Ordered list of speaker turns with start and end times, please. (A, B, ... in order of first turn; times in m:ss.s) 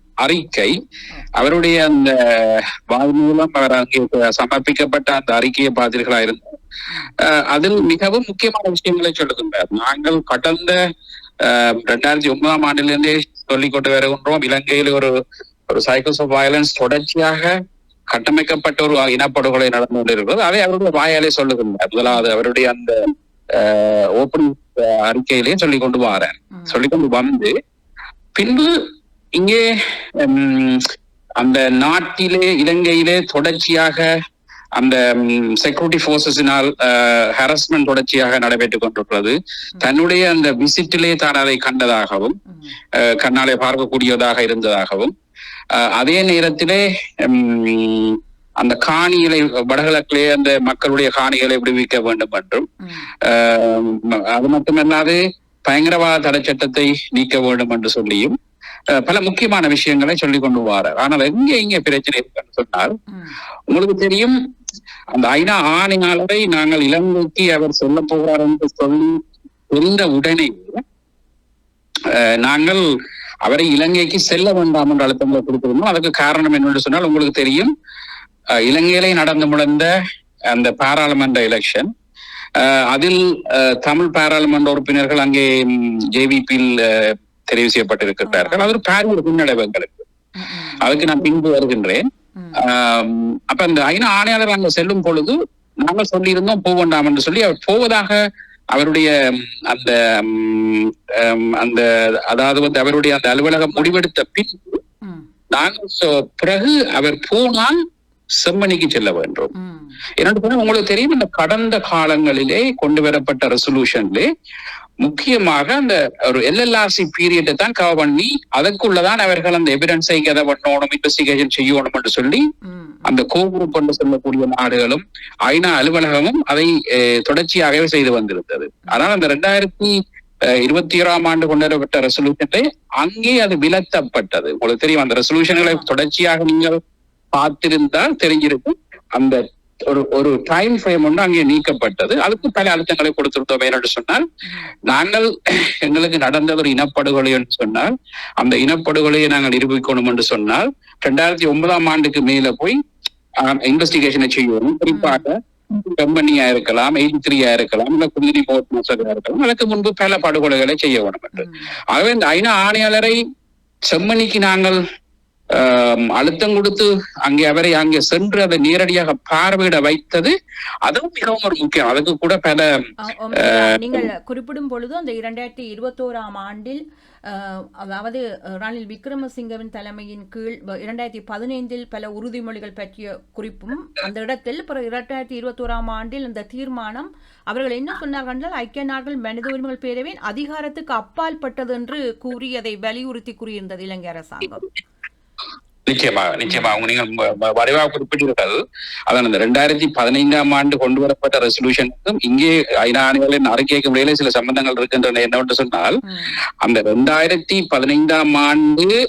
0:00.2-0:00.7 A
0:01.4-0:06.5 A
0:07.2-0:10.8 A
0:11.4-0:15.1 A
0:15.7-0:17.5 A
0:18.1-0:27.5 A
0:26.5-0:26.8 B
0:28.4-0:28.8 A
0:29.4-0:30.9 A
0:31.4-0:34.1 A
0:34.8-0:42.4 A
0:42.5-0:42.8 B
0:43.0-0:45.1 A
0:45.8-0:52.7 A
0:52.8-0:53.1 B
0:53.2-0:58.4 A
0:59.0-1:03.0 A
1:03.1-1:03.4 B
1:03.7-1:04.4 A
1:05.1-1:09.2 A
1:09.7-1:10.8 A
1:12.1-1:12.8 A
1:13.4-1:17.7 A
1:18.6-1:19.9 A
1:20.5-1:21.9 A
1:22.6-1:30.0 A
1:28.2-1:28.8 B
1:30.4-1:30.9 B
1:30.8-1:32.1 A
1:32.4-1:32.6 B
1:32.6-1:38.2 A
1:38.7-1:44.8 A
1:45.0-1:45.3 B
1:45.5-1:47.8 A
1:48.4-1:49.5 A
1:49.6-1:50.0 B
1:50.2-1:54.3 A
1:55.0-2:02.4 A
2:02.6-2:03.1 B
2:03.1-2:09.9 A
2:10.5-2:16.8 A
2:15.6-2:15.9 B
2:17.4-2:24.2 A
2:24.5-2:24.7 B
2:24.9-2:32.8 A
2:33.4-2:43.2 A
2:34.9-2:35.2 B
2:41.4-2:41.8 B
2:43.9-2:44.8 A
2:45.5-2:50.3 A
2:50.8-2:52.7 A
2:53.0-3:14.7 B
2:53.4-2:54.1 A
3:15.9-3:26.0 A
3:16.5-3:16.8 B
3:26.0-3:26.4 B
3:26.6-3:28.9 A